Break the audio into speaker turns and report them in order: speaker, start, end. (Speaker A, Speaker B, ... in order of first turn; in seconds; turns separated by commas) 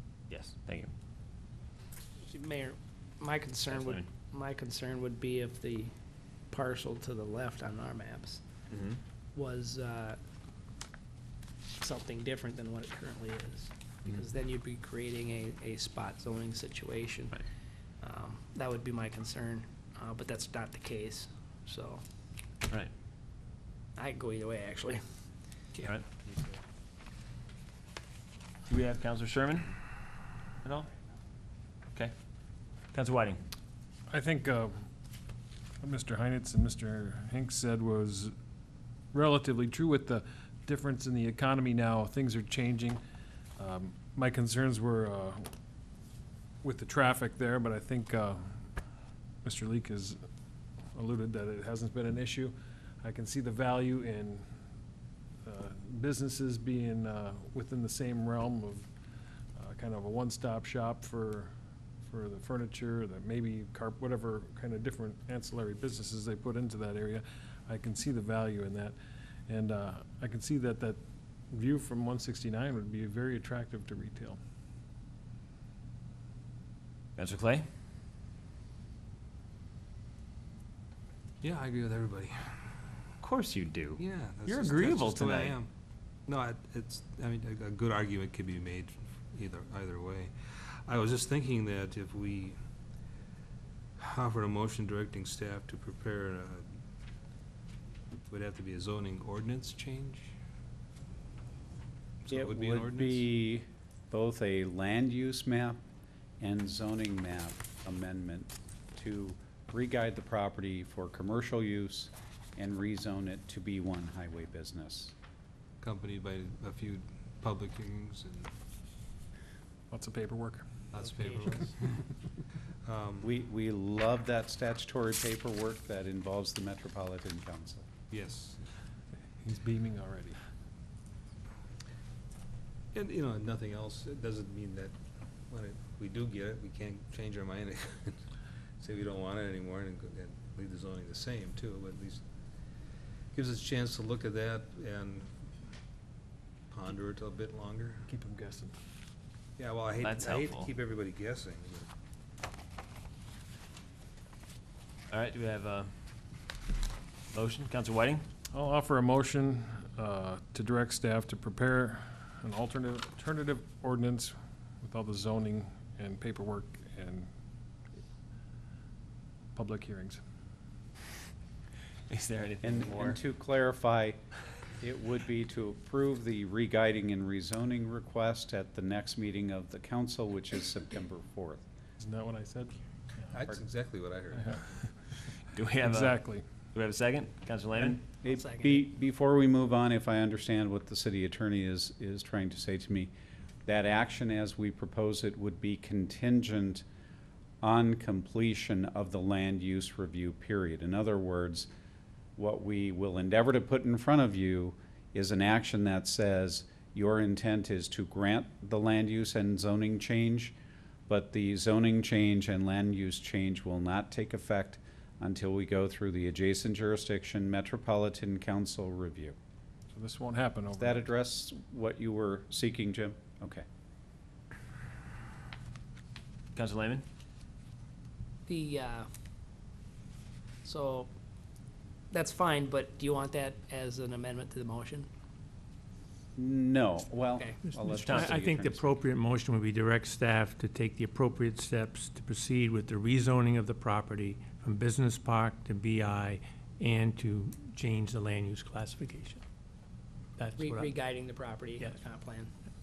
Speaker A: 0.3-0.9, Speaker B: 2.3-5.9, Speaker A: 3.7-4.1, Speaker B: 6.5-8.4, Speaker A: 8.7-9.0, Speaker B: 9.3-10.2, Speaker B: 11.8-17.4, Speaker B: 18.0-22.0, Speaker B: 24.0-25.0, Speaker A: 28.7-29.7, Speaker A: 32.9-33.4, Speaker C: 34.1-34.9, Speaker C: 35.8-38.3, Speaker C: 39.1-43.0, Speaker C: 43.6-45.5, Speaker C: 46.6-48.6, Speaker C: 49.4-50.2, Speaker C: 51.0-54.5, Speaker C: 55.5-58.9, Speaker C: 59.6-61.5, Speaker C: 62.0-69.0, Speaker C: 69.5-74.4, Speaker A: 77.2-77.7, Speaker D: 81.4-82.5, Speaker A: 83.2-85.6, Speaker D: 84.0-85.7, Speaker D: 86.3-92.6, Speaker D: 94.0-96.6, Speaker D: 98.3-100.3, Speaker D: 102.2-103.2, Speaker E: 102.3-105.8, Speaker E: 106.4-115.1, Speaker D: 115.8-118.5, Speaker C: 119.9-120.7, Speaker D: 120.9-122.0, Speaker D: 122.8-123.3, Speaker E: 123.2-127.9, Speaker D: 128.1-128.7, Speaker C: 129.4-130.4, Speaker D: 132.9-134.9, Speaker D: 135.5-138.2, Speaker D: 138.8-142.2, Speaker D: 143.3-145.3, Speaker D: 146.7-148.1, Speaker C: 148.1-148.8, Speaker D: 149.6-151.9, Speaker A: 150.0-150.7, Speaker A: 155.1-155.9, Speaker A: 157.3-158.2, Speaker C: 158.5-167.3, Speaker C: 169.6-170.2, Speaker A: 172.1-173.2, Speaker E: 172.6-174.2, Speaker E: 174.8-181.6, Speaker C: 182.0-183.2, Speaker D: 183.3-184.9, Speaker C: 184.4-184.6, Speaker A: 185.5-186.2, Speaker C: 185.8-186.4, Speaker A: 186.7-188.0, Speaker E: 187.8-193.1, Speaker B: 188.2-188.9, Speaker E: 193.7-196.8, Speaker E: 197.6-201.7, Speaker E: 202.4-210.5, Speaker E: 211.1-219.4, Speaker C: 219.9-221.0, Speaker E: 220.8-223.7, Speaker A: 226.6-227.0, Speaker B: 228.5-229.1, Speaker B: 230.7-231.1, Speaker B: 232.1-235.1, Speaker E: 236.4-238.8, Speaker F: 237.7-249.4, Speaker A: 238.0-238.3, Speaker F: 250.4-251.0, Speaker B: 250.6-252.5